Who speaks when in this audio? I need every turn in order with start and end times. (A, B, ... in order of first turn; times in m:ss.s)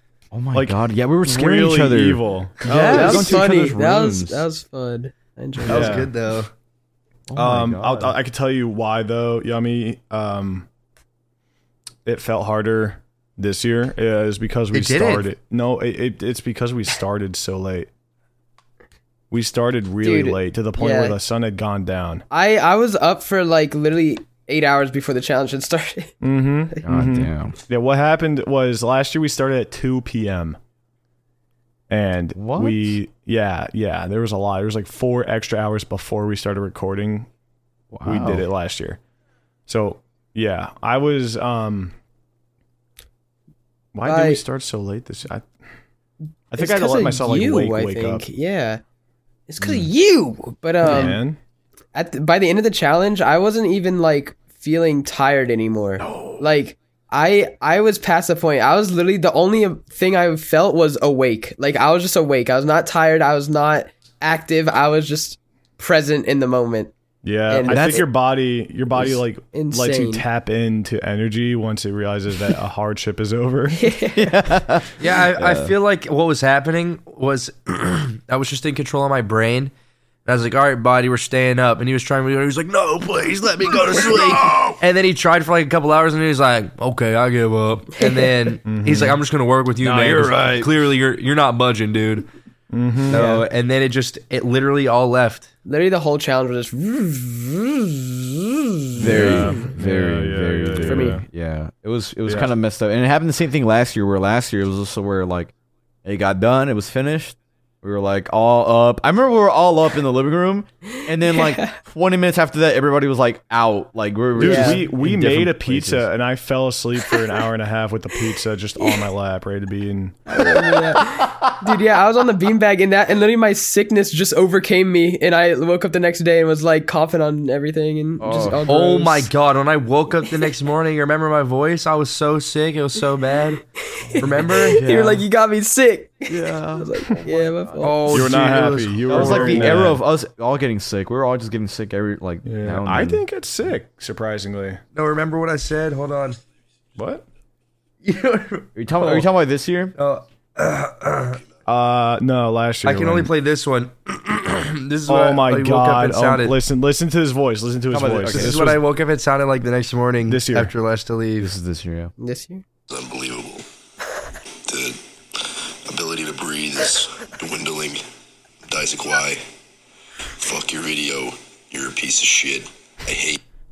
0:00.3-0:04.4 A
0:00.5-0:03.2 B
0:02.7-0:06.0 C
0:02.7-0:03.2 D
0:05.6-0:06.1 B
0:05.7-0:06.5 D
0:07.3-0:08.1 A
0:07.4-0:10.7 B
0:12.0-0:17.9 B
0:14.7-0:15.3 D
0:19.3-0:22.2 B
0:20.0-0:21.2 C
0:22.3-0:26.1 C
0:26.2-0:30.6 B
0:26.8-0:27.6 A
0:31.9-0:37.3 B
0:32.4-0:33.0 A
0:37.9-0:38.5 A
0:38.0-0:39.0 B
0:39.7-0:41.9 B
0:44.0-0:45.5 B
0:44.0-0:44.4 C
0:46.5-0:48.2 B
0:46.6-0:48.8 C
0:49.5-0:51.2 C
0:49.6-0:49.9 B
0:50.8-0:51.4 B
0:51.9-1:06.9 C
1:07.2-1:13.8 B
1:07.5-1:08.1 C
1:07.7-1:07.9 A
1:09.0-1:10.2 C
1:13.7-1:14.3 C
1:14.1-1:15.7 A
1:15.0-1:19.7 D
1:20.3-1:32.3 D
1:28.0-1:28.3 C
1:28.6-1:29.2 B
1:29.8-1:30.6 A
1:30.1-1:30.6 B
1:32.7-1:33.2 B
1:33.1-1:35.5 D
1:33.2-1:33.4 A
1:35.6-1:39.7 C
1:39.0-1:45.5 A
1:39.0-1:41.2 B
1:40.9-1:41.2 C
1:42.3-1:42.5 B
1:46.0-1:56.1 A
1:51.3-1:51.7 C
1:54.4-2:00.2 B
1:54.4-1:54.8 C
2:00.3-2:09.3 C
2:08.2-2:08.6 A
2:08.6-2:13.6 D
2:14.1-2:18.3 C
2:14.2-2:14.8 D
2:14.2-2:15.2 A
2:16.3-2:18.0 A
2:17.8-2:19.9 D
2:18.1-2:20.0 B
2:19.1-2:23.2 A
2:22.4-2:24.8 B
2:24.9-2:26.4 D
2:27.0-2:27.2 B
2:28.0-2:29.3 D
2:28.8-2:30.0 A
2:30.0-2:31.4 D
2:31.7-2:33.3 B
2:32.8-2:36.6 D
2:35.1-2:38.8 B
2:37.9-2:38.8 A
2:38.3-2:41.5 D
2:40.3-2:40.7 B
2:41.4-2:42.1 A
2:42.2-2:42.6 C
2:42.9-2:43.6 E
2:43.0-2:43.5 D
2:45.9-2:48.0 D
2:45.9-2:48.0 E
2:48.7-2:49.4 D
2:48.7-2:49.4 E
2:50.4-2:53.4 E
2:50.4-2:53.4 D